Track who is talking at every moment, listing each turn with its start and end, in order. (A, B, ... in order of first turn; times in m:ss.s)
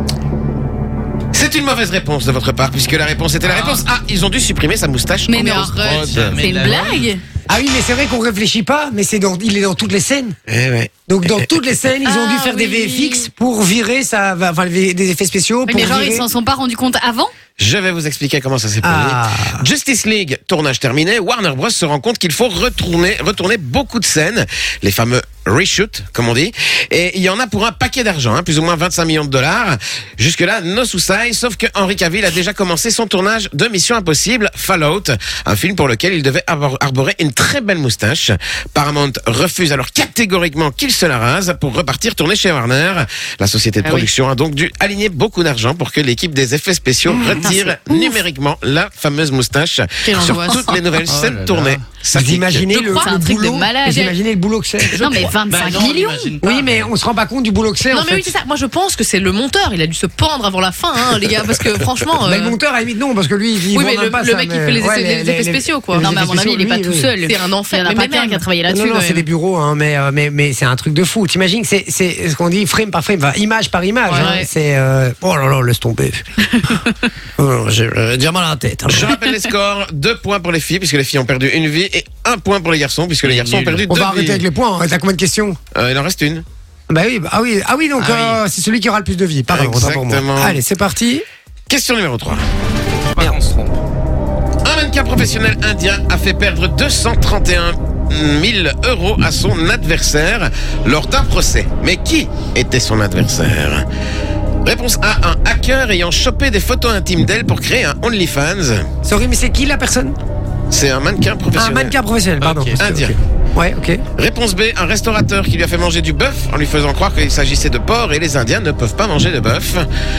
0:01.3-0:06.4 A
0:03.4-0:03.8 B
0:05.3-0:07.2 C
0:05.8-0:07.1 B
0:07.5-0:10.3 D
0:10.5-0:11.4 A
0:11.1-0:16.2 D
0:12.0-0:13.3 E
0:15.7-0:17.3 C
0:17.6-0:52.7 A
0:18.8-0:19.6 D
0:47.1-0:47.4 D
0:47.9-0:48.1 C
0:50.0-0:50.8 E
0:50.3-0:50.6 C
0:51.1-0:51.8 B
0:52.1-0:54.9 D
0:52.7-0:53.6 E
0:53.0-0:54.1 C
0:54.9-0:55.3 E
0:55.0-0:56.3 C
0:55.4-0:56.9 B
0:56.4-0:58.3 D
0:57.9-1:02.6 E
1:02.2-1:07.1 D
1:03.7-1:06.0 E
1:06.0-1:09.2 C
1:07.2-1:08.6 E
1:08.7-1:16.2 D
1:14.1-1:14.5 E
1:14.1-1:14.4 C
1:17.4-1:19.1 D
1:18.9-1:24.4 A
1:23.2-1:23.9 B
1:23.9-1:25.6 D
1:25.7-1:26.4 A
1:26.9-1:31.2 D
1:28.0-1:28.4 B
1:29.5-1:30.6 A
1:31.7-1:32.4 A
1:33.1-1:33.8 B
1:34.6-1:43.8 A
1:44.6-1:48.9 A
1:49.0-1:50.1 D
1:50.7-1:51.9 A
1:51.5-1:54.0 D
1:52.4-1:52.8 B
1:52.8-1:53.1 A
1:54.2-1:59.8 A